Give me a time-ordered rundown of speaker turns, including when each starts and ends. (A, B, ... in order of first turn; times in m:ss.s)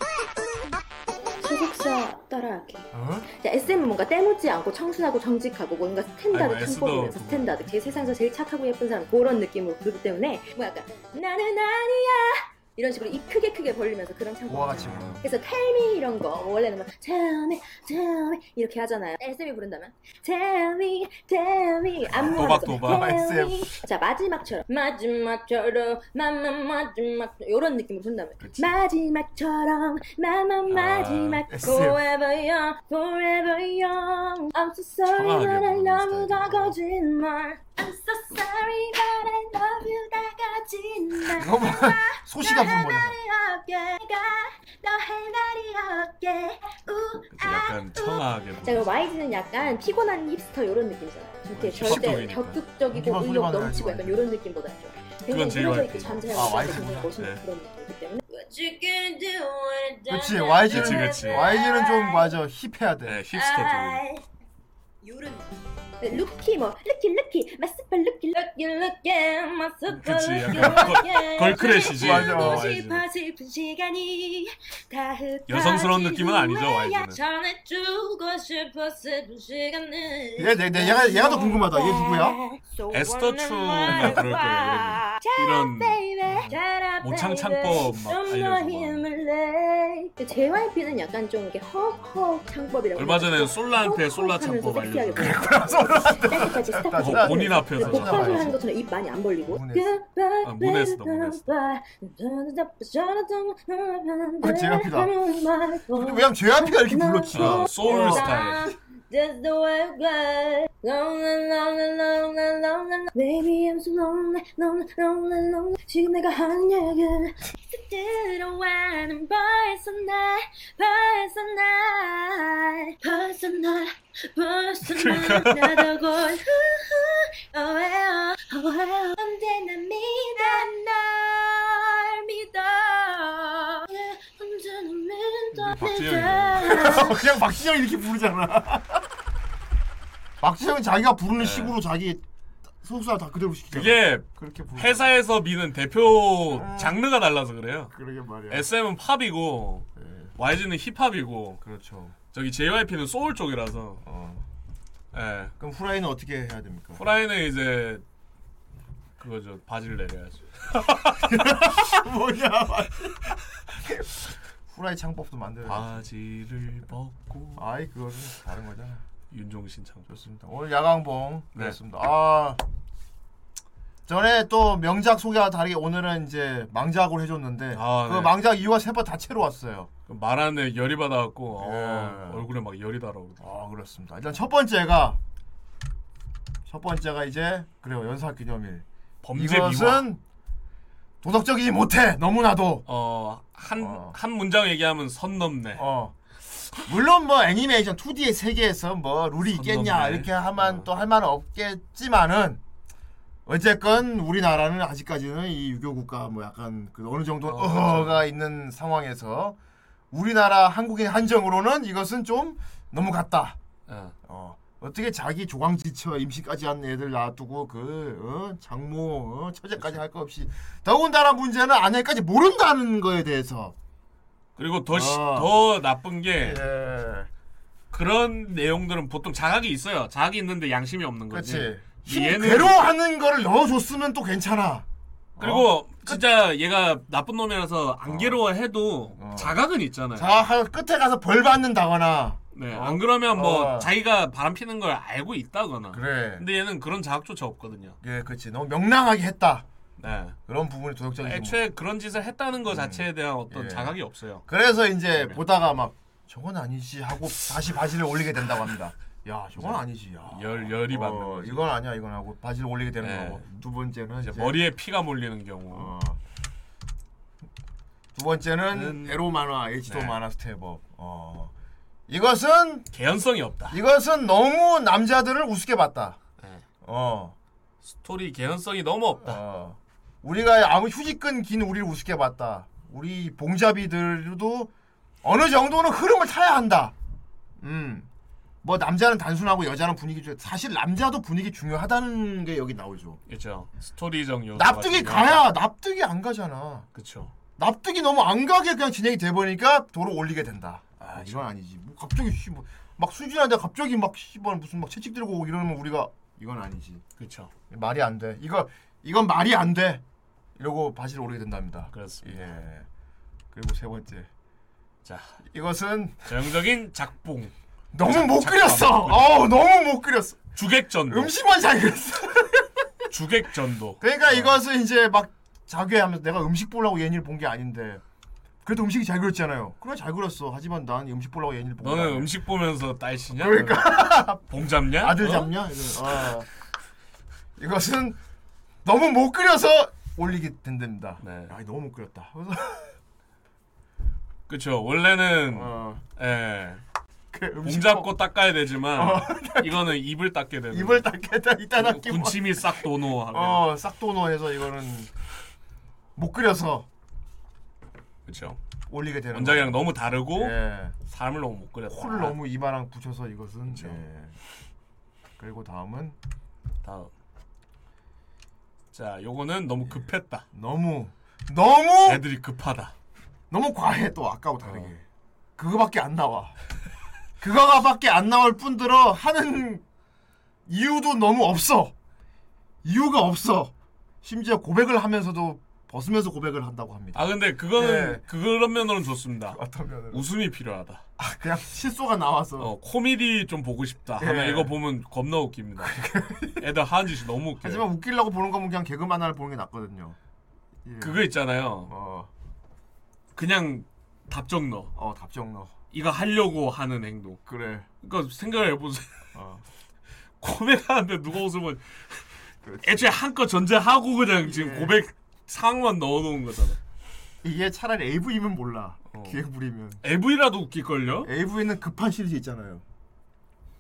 0:01.4-1:02.4 A
0:02.9-0:03.3 B
0:06.3-0:07.6 C
0:14.5-0:15.2 B
0:22.1-0:23.1 C
0:22.2-0:23.7 B
0:28.4-0:28.8 C
0:30.7-0:31.5 C
0:31.5-0:32.0 B
0:35.0-0:36.8 C
0:41.4-0:43.2 B
0:47.3-0:48.9 C
0:51.5-0:52.6 C
0:51.6-0:52.3 B
0:52.9-0:54.3 B
0:55.3-0:56.5 C
0:56.3-0:57.1 B
0:57.2-0:57.4 C
1:00.1-1:03.3 B
1:00.7-1:01.5 C
1:03.1-1:04.0 C
1:03.3-1:04.2 A
1:05.0-1:05.5 A
1:06.0-2:17.2 A
1:09.9-1:13.0 C
1:11.8-1:12.7 B
1:15.5-1:17.2 C
1:20.4-1:22.4 B
1:22.9-1:26.0 C
1:26.2-1:26.6 B
1:27.0-1:29.0 C
1:33.0-1:35.4 C
1:35.2-1:38.6 B
1:37.0-1:38.5 C
1:39.4-1:40.0 B
1:40.4-1:41.4 C
1:44.4-1:45.1 B
1:45.9-1:48.3 B
1:47.3-1:48.7 C
2:04.9-2:05.9 C
2:15.6-2:16.8 C
2:16.7-2:19.0 B
2:20.4-2:22.2 B
2:21.4-2:21.8 C
2:22.8-2:25.1 B
2:23.7-2:27.9 C
2:26.5-2:27.0 B
2:27.9-2:28.7 B
2:28.5-2:31.6 C
2:30.0-2:30.3 B
2:31.6-2:32.2 B
2:32.3-2:34.0 C
2:34.0-2:34.5 B
2:35.1-2:35.5 C
2:35.6-2:37.0 B
2:37.0-2:38.0 C
2:39.2-2:41.2 C
2:41.1-2:44.1 B
2:44.7-2:46.0 B
2:45.7-2:47.6 C
2:47.6-2:49.1 B
2:49.3-2:50.1 C
2:50.1-2:52.6 B
2:54.1-2:59.9 B
2:57.7-2:58.3 C
3:00.1-3:03.4 C
3:01.6-3:02.5 B
3:03.4-3:05.2 B
3:06.7-3:10.2 B
3:09.2-3:10.1 C
3:11.2-3:12.8 B
3:12.9-3:15.8 C
3:13.8-3:14.2 B
3:15.8-3:16.2 B
3:16.8-3:22.6 B
3:19.5-3:20.9 C
3:23.5-3:29.6 B
3:27.5-3:28.2 C
3:30.1-3:33.6 B
3:33.9-3:34.2 C
3:34.2-3:43.8 B
3:44.6-3:46.6 C
3:44.9-3:45.5 B
3:46.4-3:47.3 B
3:47.9-3:52.8 C
3:51.3-3:56.2 B
3:55.4-4:00.3 C
3:58.1-3:58.4 B
3:59.2-3:59.6 B
4:00.2-4:03.9 B
4:02.5-4:08.0 C
4:05.9-4:06.5 B
4:08.0-4:09.7 B
4:10.0-4:10.4 C
4:10.5-4:11.6 B
4:11.2-4:14.4 C
4:12.7-4:14.0 B
4:14.5-4:24.6 B
4:19.6-4:21.6 C
4:23.0-4:23.4 C
4:24.2-4:25.9 C
4:25.7-4:26.2 B
4:28.2-4:31.5 B
4:28.7-4:29.2 C
4:29.9-4:30.2 C
4:32.1-4:32.9 B
4:32.9-4:33.8 C
4:33.7-4:36.2 B
4:36.4-4:36.6 C
4:36.8-4:37.4 B
4:37.8-4:39.4 C
4:39.2-4:44.7 B
4:45.2-4:47.0 B
4:47.6-4:48.1 B
4:48.6-4:53.2 B
4:53.3-4:55.4 C
4:54.6-4:56.9 B
4:57.0-4:57.3 C
4:57.6-5:07.0 B
5:07.2-5:07.5 C
5:07.7-5:10.0 B
5:10.6-5:12.9 B
5:11.9-5:12.5 C
5:13.5-5:14.3 B
5:15.0-5:15.4 C
5:15.5-5:16.5 B
5:16.3-5:19.4 C
5:17.9-5:20.5 B
5:20.6-5:21.3 C
5:21.1-5:22.9 B
5:23.1-5:24.6 C
5:24.0-5:28.0 B
5:28.6-5:32.3 B
5:31.8-5:35.5 C
5:33.4-5:36.5 B
5:37.6-5:38.2 B
5:38.8-5:42.9 B
5:41.2-5:41.5 C
5:44.5-5:46.8 C
5:45.5-5:46.0 B
5:47.3-5:48.2 B
5:47.6-5:51.1 C
5:48.9-5:50.0 B
5:50.7-5:55.1 B
5:51.8-5:53.6 C
5:56.2-5:56.9 B
5:58.3-5:58.6 C
5:58.9-6:01.0 B
5:59.3-6:02.4 C
6:01.9-6:04.4 B
6:03.7-6:04.0 C
6:05.4-6:06.2 B
6:06.8-6:07.1 C
6:08.9-6:10.4 C
6:09.9-6:12.2 B
6:12.0-6:12.9 C
6:13.5-6:15.0 B
6:14.7-6:14.9 C
6:15.6-6:16.6 B
6:17.4-6:19.8 B
6:20.7-6:21.9 B
6:22.8-6:28.2 B
6:27.1-6:29.6 C
6:29.5-6:30.3 B
6:30.1-6:31.0 C
6:31.2-6:32.7 B
6:32.6-6:36.0 C
6:34.2-6:34.7 B
6:35.8-6:36.6 B
6:36.6-6:37.8 C
6:37.6-6:40.2 B
6:40.8-6:41.3 B
6:41.0-6:41.9 C
6:41.8-6:42.3 B
6:43.4-6:44.9 C
6:45.0-6:45.8 B
6:45.9-6:47.4 C
6:47.5-6:47.9 B
6:48.0-6:49.2 C
6:49.4-6:49.6 B
6:50.4-6:52.2 C
6:52.6-6:53.1 B
6:52.8-6:56.8 C
6:54.4-6:55.0 B
6:57.4-7:00.0 B
6:59.1-6:59.4 C
7:00.0-7:01.3 C
7:01.2-7:02.8 B